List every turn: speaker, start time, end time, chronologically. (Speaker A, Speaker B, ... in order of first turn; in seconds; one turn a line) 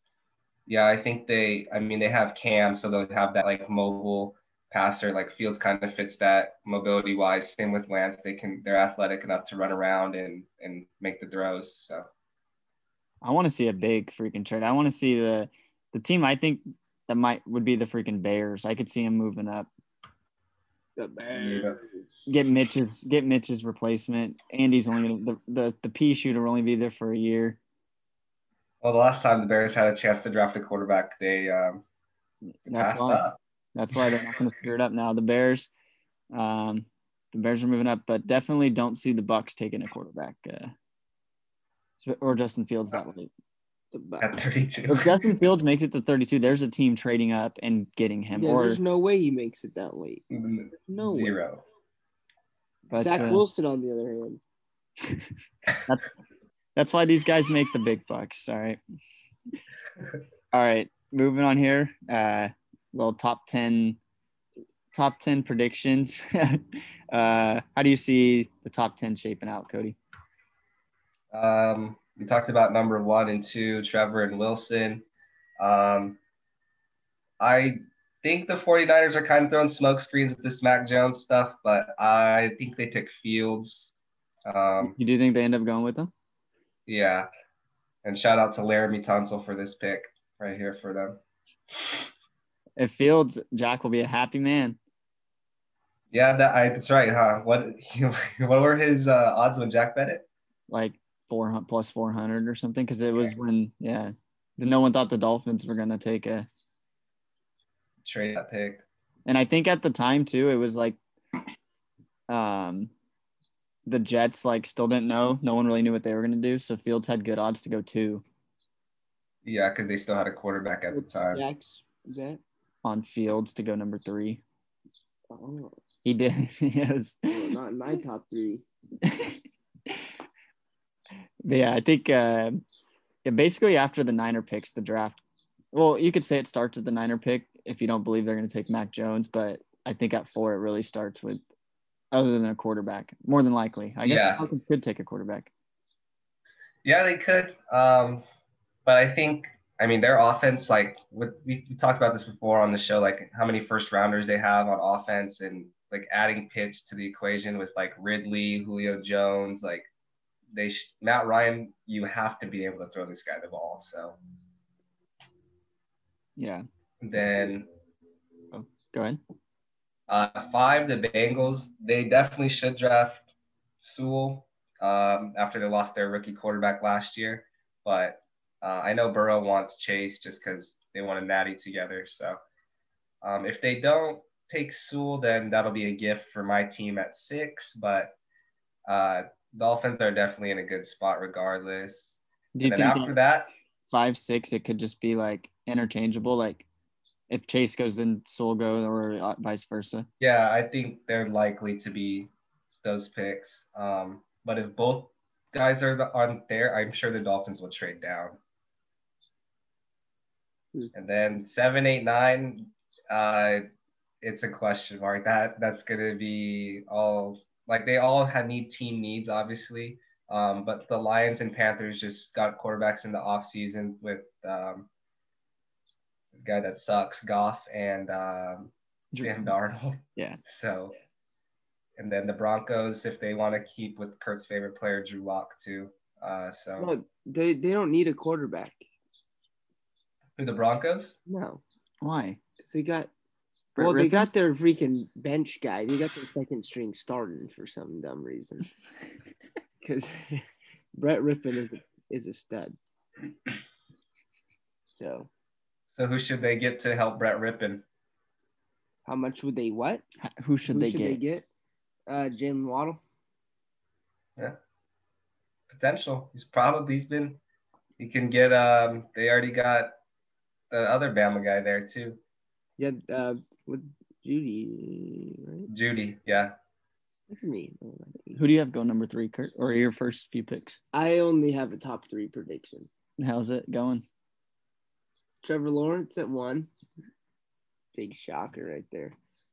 Speaker A: 0.7-12.1
Speaker B: 13.2-19.7
Speaker C: 21.0-22.3
Speaker A: 21.3-21.8
Speaker B: 22.3-27.6
Speaker A: 28.8-31.8
Speaker B: 32.7-35.7
Speaker A: 32.7-33.4
Speaker B: 36.3-40.7
Speaker B: 42.0-43.3
Speaker C: 43.9-44.3
Speaker A: 44.2-45.3
Speaker B: 44.9-48.8
Speaker C: 48.4-50.2
Speaker A: 50.3-51.6
Speaker C: 50.8-51.4
Speaker B: 52.9-53.4
Speaker C: 53.0-54.4
Speaker B: 55.0-55.3
Speaker B: 56.8-58.8
Speaker B: 60.5-64.0
Speaker B: 64.9-70.0
Speaker A: 71.3-75.0
Speaker A: 75.6-76.2
Speaker A: 77.4-83.9
Speaker A: 84.5-85.0
Speaker B: 84.8-86.1
Speaker A: 86.9-87.3
Speaker A: 88.0-91.2
Speaker B: 92.8-94.8
Speaker A: 96.1-100.3
Speaker B: 100.7-106.5
Speaker A: 108.0-108.8
Speaker B: 109.3-111.0
Speaker B: 112.3-112.9
Speaker B: 113.9-118.2
Speaker A: 119.5-121.4
Speaker C: 120.9-122.4
Speaker B: 122.8-124.4
Speaker C: 125.3-125.8
Speaker B: 126.0-127.4
Speaker C: 127.3-128.7
Speaker B: 129.0-130.1
Speaker B: 131.4-132.6
Speaker B: 133.2-135.2
Speaker B: 135.7-141.4
Speaker B: 142.1-145.5
Speaker A: 144.0-144.4
Speaker A: 146.8-148.2
Speaker A: 148.9-159.9
Speaker A: 160.5-164.2
Speaker B: 166.4-166.7
Speaker A: 167.0-167.7
Speaker B: 168.5-169.2
Speaker A: 170.1-173.3
Speaker A: 173.8-182.4
Speaker A: 183.2-188.2
Speaker A: 188.9-193.5
Speaker B: 192.6-193.2
Speaker B: 193.9-196.7
Speaker B: 197.3-200.1
Speaker A: 200.2-202.3
Speaker A: 202.8-208.4
Speaker A: 210.9-213.7
Speaker A: 214.2-224.9
Speaker A: 226.3-231.0
Speaker B: 229.1-229.5
Speaker A: 232.0-236.9
Speaker C: 236.8-238.8
Speaker A: 240.4-241.2
Speaker C: 241.3-241.6
Speaker B: 242.0-242.4
Speaker C: 242.6-243.1
Speaker B: 243.8-244.3
Speaker C: 243.8-248.7
Speaker C: 249.8-252.8
Speaker C: 254.9-255.3
Speaker A: 256.0-257.8
Speaker C: 259.1-260.0
Speaker B: 260.2-261.2
Speaker C: 260.7-261.5
Speaker C: 262.1-263.0
Speaker A: 265.7-267.4
Speaker A: 268.0-270.0
Speaker A: 270.7-272.2
Speaker C: 272.8-275.7
Speaker A: 275.7-276.6
Speaker C: 277.3-278.4
Speaker B: 278.4-280.8
Speaker C: 280.9-282.9
Speaker B: 283.2-284.1
Speaker C: 285.4-286.7
Speaker C: 287.9-289.2